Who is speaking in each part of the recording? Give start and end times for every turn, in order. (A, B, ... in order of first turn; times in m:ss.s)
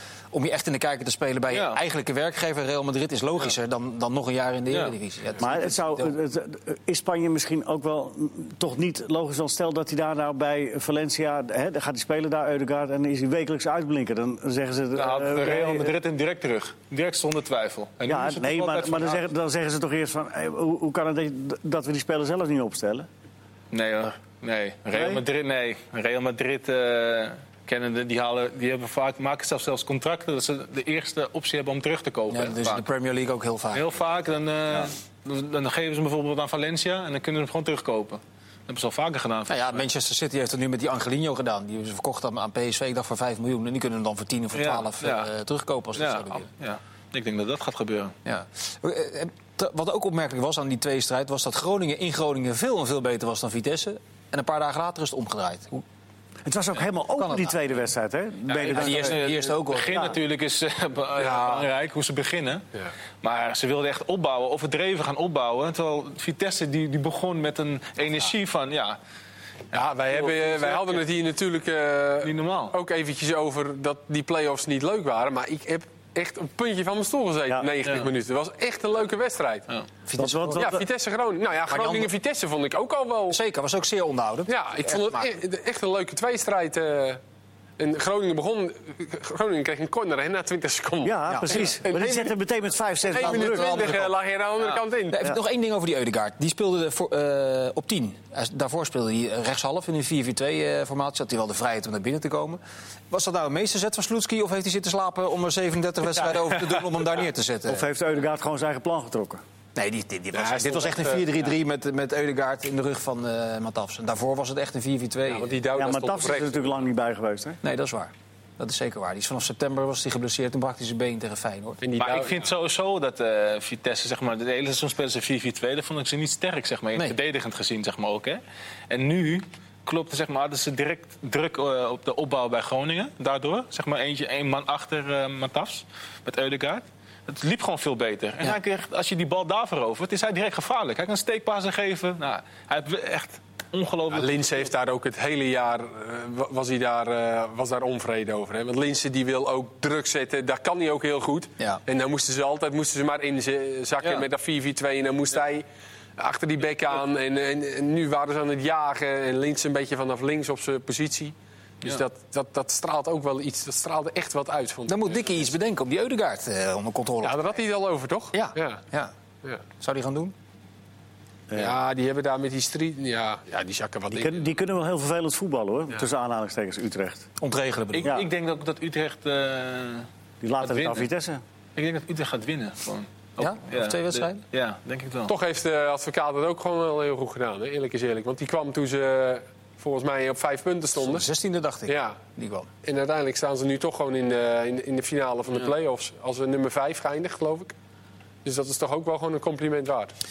0:00.3-0:06.1 A
0:01.5-0:01.8 B
0:04.7-0:04.9 B
0:05.4-0:15.9 C
0:14.9-0:19.2 B
0:18.1-0:23.1 C
0:23.7-0:32.8 B
0:24.9-0:25.2 C
0:32.3-0:33.9 A
0:33.7-0:39.8 B
0:39.5-0:46.5 A
0:44.5-0:45.3 B
0:45.9-0:48.1 B
0:48.2-0:55.8 A
0:56.4-0:59.2 C
0:57.1-0:57.6 A
0:58.5-1:02.6 B
0:58.7-1:00.1 A
0:59.9-1:00.2 C
1:01.2-1:01.7 D
1:03.2-1:09.0 B
1:09.7-1:19.7 D
1:10.1-1:11.0 B
1:12.2-1:12.7 B
1:20.0-1:20.7 A
1:20.1-1:20.8 C
1:20.5-1:23.4 D
1:21.7-1:22.1 A
1:23.3-1:25.3 A
1:24.5-1:27.2 D
1:27.8-1:32.3 D
1:31.0-1:34.0 C
1:31.3-1:31.8 A
1:33.1-1:35.2 D
1:33.2-1:34.1 A
1:35.1-1:47.8 A
1:47.6-1:49.4 C
1:49.7-1:55.6 A
1:50.3-1:51.4 D
1:55.3-1:56.8 D
1:55.7-1:57.6 C
1:57.6-2:01.8 A
2:01.8-2:02.5 D
2:02.0-2:24.3 B
2:24.1-2:35.6 D
2:36.2-2:45.5 D
2:44.9-2:47.5 A
2:47.2-2:48.8 D
2:48.3-2:49.1 A
2:49.8-2:50.3 A
2:51.5-2:51.8 C
2:51.5-2:54.6 D
2:54.1-2:57.3 C
2:57.4-2:58.2 A
2:57.9-3:00.1 B
3:00.4-3:01.4 C
3:00.6-3:01.1 B
3:01.8-3:05.3 B
3:03.4-3:04.4 A
3:05.2-3:11.3 D
3:11.0-3:12.7 A
3:11.9-3:12.2 D
3:12.8-3:17.7 D
3:18.4-3:20.1 D